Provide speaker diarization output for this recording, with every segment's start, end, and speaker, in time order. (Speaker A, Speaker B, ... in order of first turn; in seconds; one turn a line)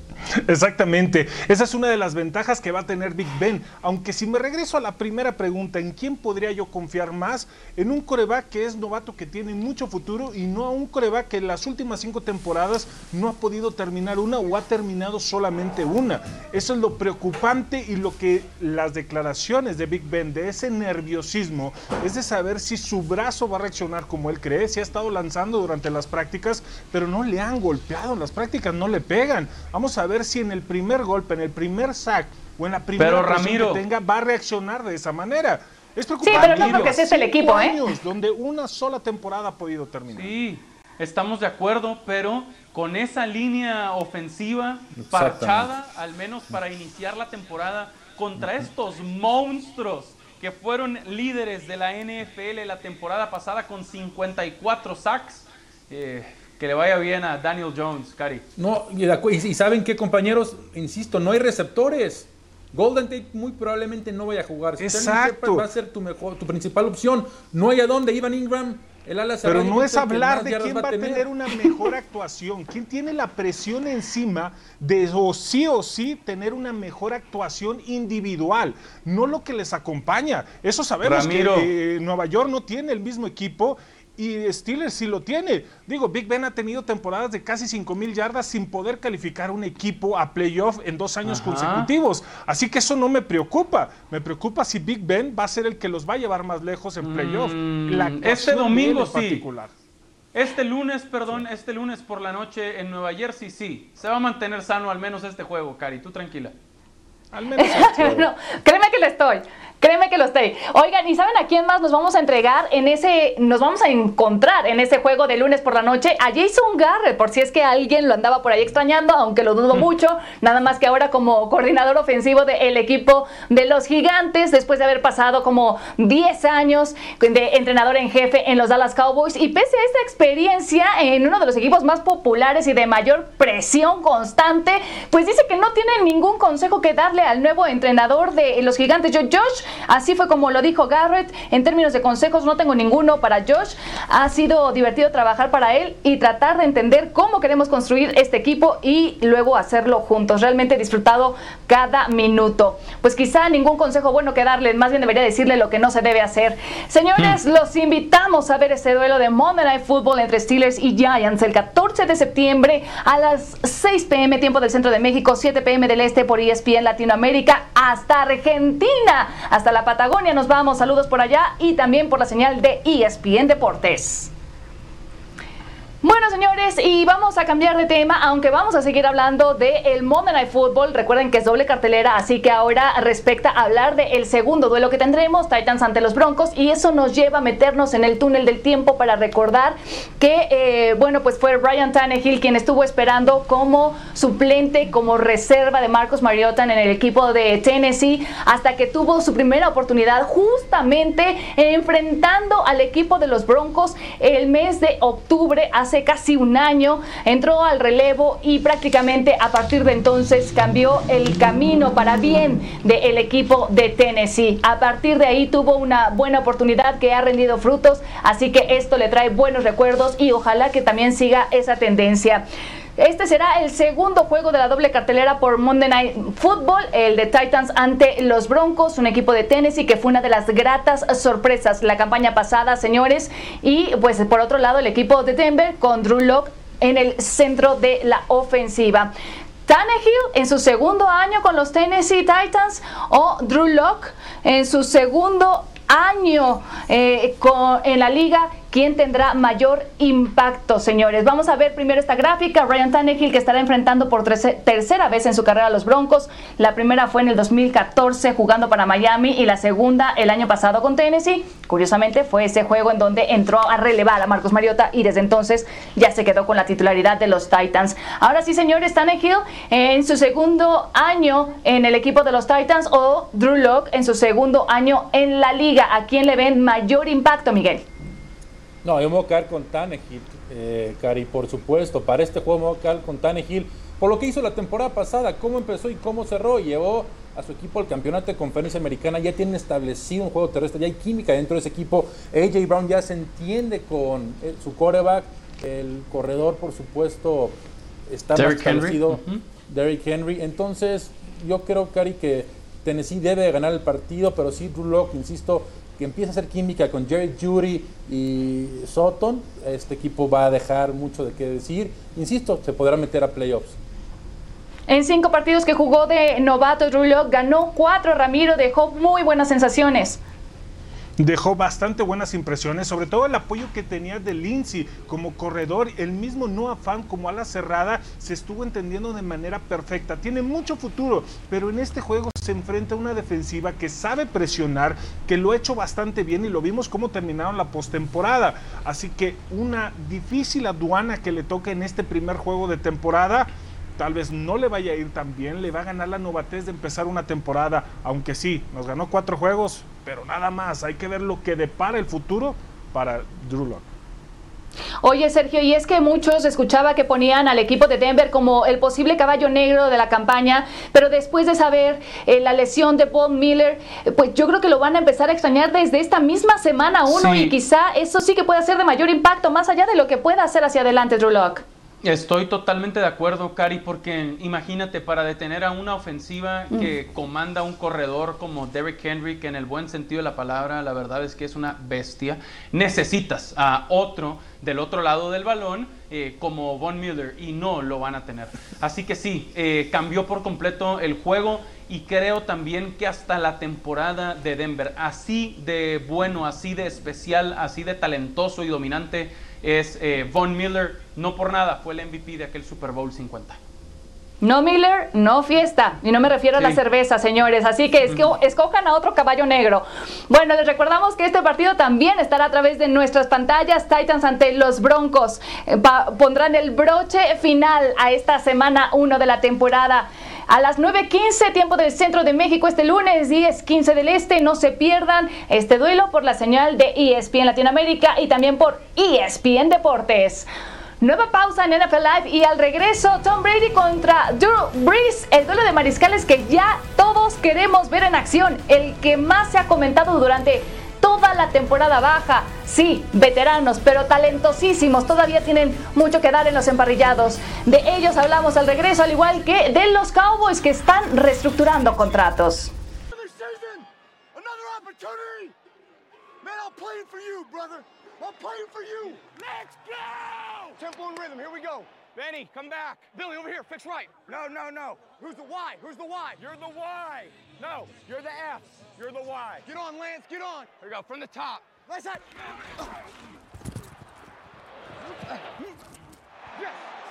Speaker A: 0.4-40.3
Speaker B: 33.0-33.8
Speaker C: 36.2-37.8
Speaker B: 36.2-37.0
Speaker B: 40.1-58.5
Speaker D: 44.9-45.7
Speaker D: 58.6-71.3
Speaker A: 64.8-65.7
Speaker A: 69.4-99.7
Speaker B: 81.0-81.7
Speaker B: 91.2-91.9
Speaker B: 97.0-99.4
Speaker B: 100.3-106.5
Speaker A: 107.3-108.3
Speaker C: 107.5-174.3
Speaker C: 176.0-222.4
Speaker C: 223.0-239.1
Speaker C: 239.7-277.8
Speaker D: 278.8-313.8
Speaker B: 298.3-299.4
Speaker C: 314.9-320.2
Speaker A: 321.2-353.9
Speaker C: 355.0-371.6
Speaker B: 367.1-367.5
Speaker B: 372.0-403.6
Speaker C: 404.4-430.5
Speaker B: 408.1-408.3
Speaker C: 431.0-452.7
Speaker E: 453.1-455.5
Speaker E: 456.4-472.2